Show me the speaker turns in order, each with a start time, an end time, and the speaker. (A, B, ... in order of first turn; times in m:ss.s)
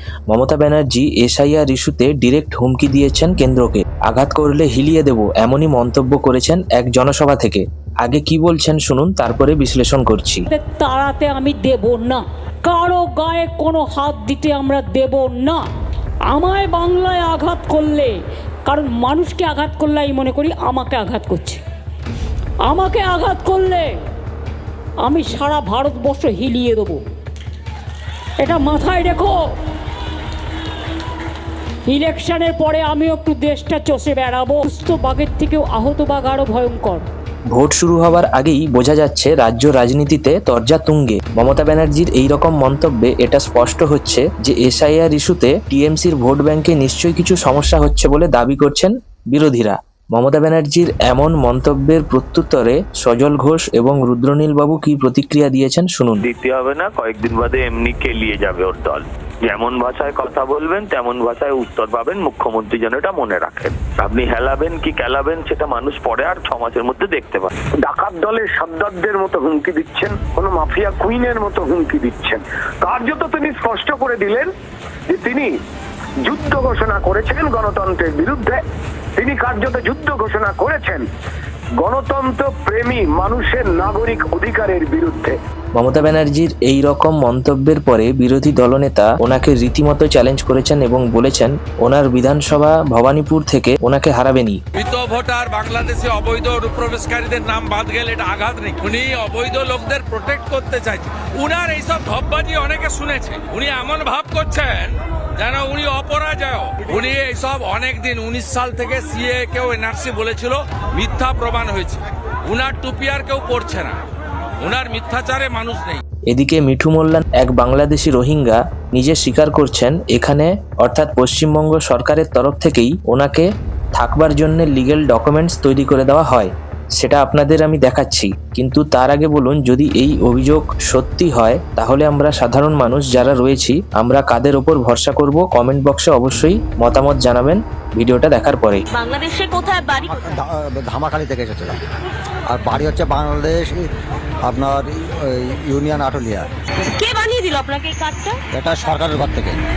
0:00.3-0:10.4 A
0:10.5-0:15.6 B
0:16.3-0:18.1 B
0:18.7-0:21.6 B
0:22.6-0:23.9 B
0:25.0-0:27.0 B
0:28.4-0:29.3 B
0:31.9-0:37.0 B
0:37.5-0:56.2 A
0:56.2-1:07.5 C
1:07.9-1:14.5 D
1:15.1-1:15.5 D
1:16.2-1:18.6 D
1:19.2-1:21.0 D
1:21.8-1:25.4 D
1:25.7-1:34.6 A
1:34.8-1:54.0 E
1:54.6-1:56.0 E
1:56.3-2:18.8 A
2:18.9-2:20.3 F
2:20.3-2:21.8 G
2:22.5-2:23.8 G
2:24.4-2:26.5 G
2:27.0-2:28.4 F
2:28.5-2:29.6 G